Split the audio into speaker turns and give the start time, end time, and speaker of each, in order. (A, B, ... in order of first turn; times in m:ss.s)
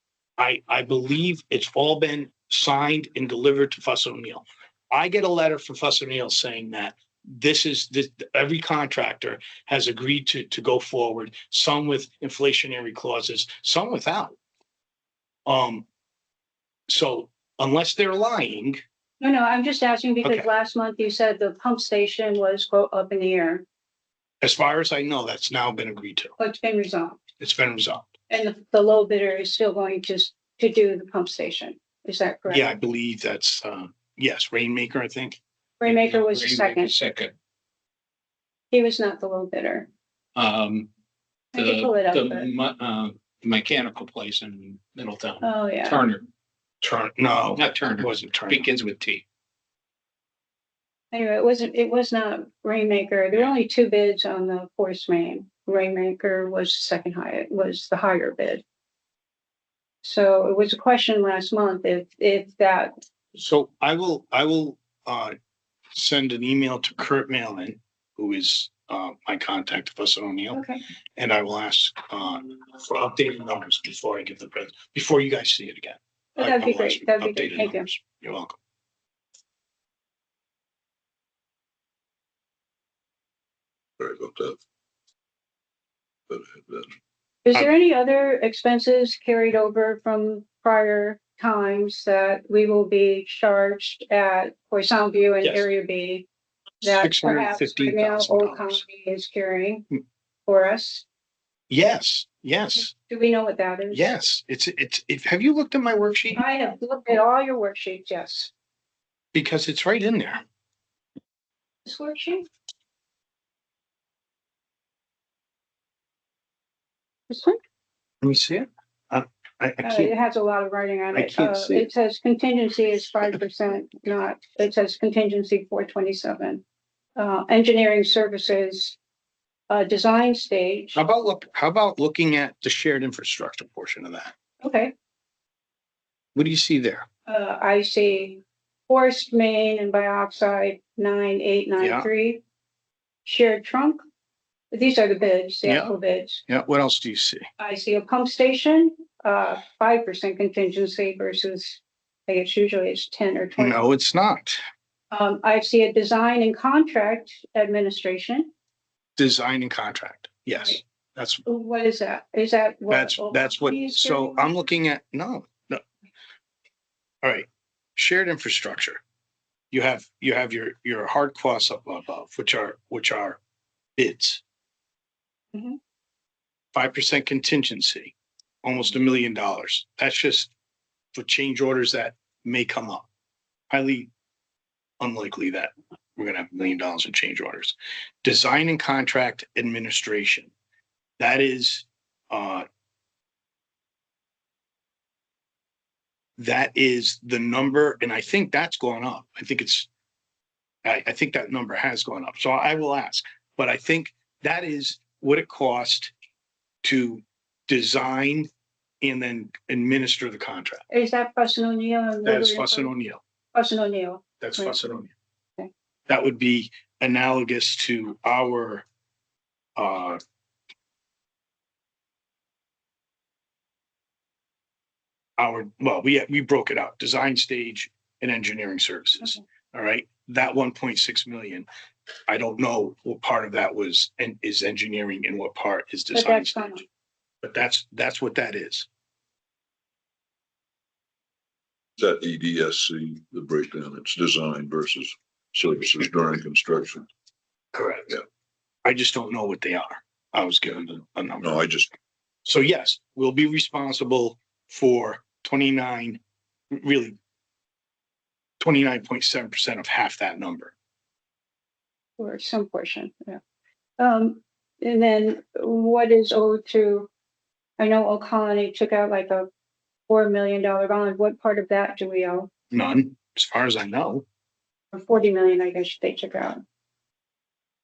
0:00.4-0:14.4 A
0:15.4-0:15.8 A
0:16.9-0:18.8 A
0:19.2-0:23.6 B
0:24.4-0:26.3 A
0:26.4-0:27.2 B
0:27.4-0:28.1 A
0:28.3-0:32.7 B
0:32.5-0:35.4 A
0:35.8-0:36.9 B
0:35.8-0:37.3 C
0:38.7-0:39.9 B
0:40.3-0:40.9 C
0:41.5-0:42.5 B
0:41.6-0:46.2 C
0:45.4-0:46.1 B
0:46.8-0:48.7 A
0:47.6-0:49.2 C
0:51.1-0:58.6 B
1:00.0-1:02.9 B
1:03.3-1:05.3 A
1:05.9-1:10.6 A
1:10.5-1:10.8 B
1:11.2-1:18.6 A
1:16.4-1:17.9 B
1:24.0-1:24.6 D
1:26.3-1:26.9 D
1:27.4-1:36.2 B
1:36.8-1:39.8 B
1:36.8-1:38.8 A
1:40.4-1:41.0 B
1:41.7-1:42.9 A
1:43.1-1:44.0 B
1:43.9-1:46.4 A
1:46.3-1:48.5 B
1:49.3-1:50.4 A
1:51.8-1:52.5 B
1:57.3-1:57.6 B
1:58.2-2:00.1 A
1:59.8-2:06.6 B
2:01.1-2:01.9 A
2:07.2-2:09.0 B
2:09.7-2:11.0 B
2:10.9-2:14.3 A
2:14.6-2:14.9 B
2:16.3-2:17.1 A
2:17.3-2:22.4 B
2:21.8-2:22.1 A
2:23.2-2:24.0 B
2:24.7-2:26.4 B
2:25.6-2:26.0 A
2:26.5-2:27.4 A
2:27.6-2:33.8 B
2:33.6-2:34.6 A
2:35.1-2:38.5 B
2:39.2-2:41.4 A
2:41.4-2:44.5 B
2:42.9-2:45.8 A
2:47.2-2:49.0 A
2:49.7-2:53.4 A
2:54.0-2:54.4 A
2:56.7-3:00.5 A
3:01.1-3:03.0 A
3:03.7-3:04.1 A
3:05.0-3:10.5 A
3:11.2-3:12.6 A
3:16.4-3:19.9 A
3:20.8-3:26.1 A
3:26.8-3:28.5 A
3:29.0-3:30.8 A
3:30.9-3:32.9 B
3:32.2-3:33.2 A
3:33.5-3:34.8 B
3:34.4-3:35.1 A
3:36.1-3:38.8 A
3:39.8-3:40.2 A
3:45.4-3:51.7 A
3:52.3-3:56.8 A
3:56.1-3:56.8 B
3:57.4-3:58.9 A
4:02.0-4:07.1 D
4:07.7-4:08.2 A
4:08.8-4:11.6 A
4:11.4-4:11.9 D
4:12.4-4:16.2 A
4:16.7-4:17.2 A
4:18.6-4:20.7 A
4:22.2-4:23.4 B
4:24.0-4:27.1 B
4:27.8-4:29.5 B
4:30.1-4:32.5 B
4:32.7-4:34.2 A
4:34.9-4:36.6 B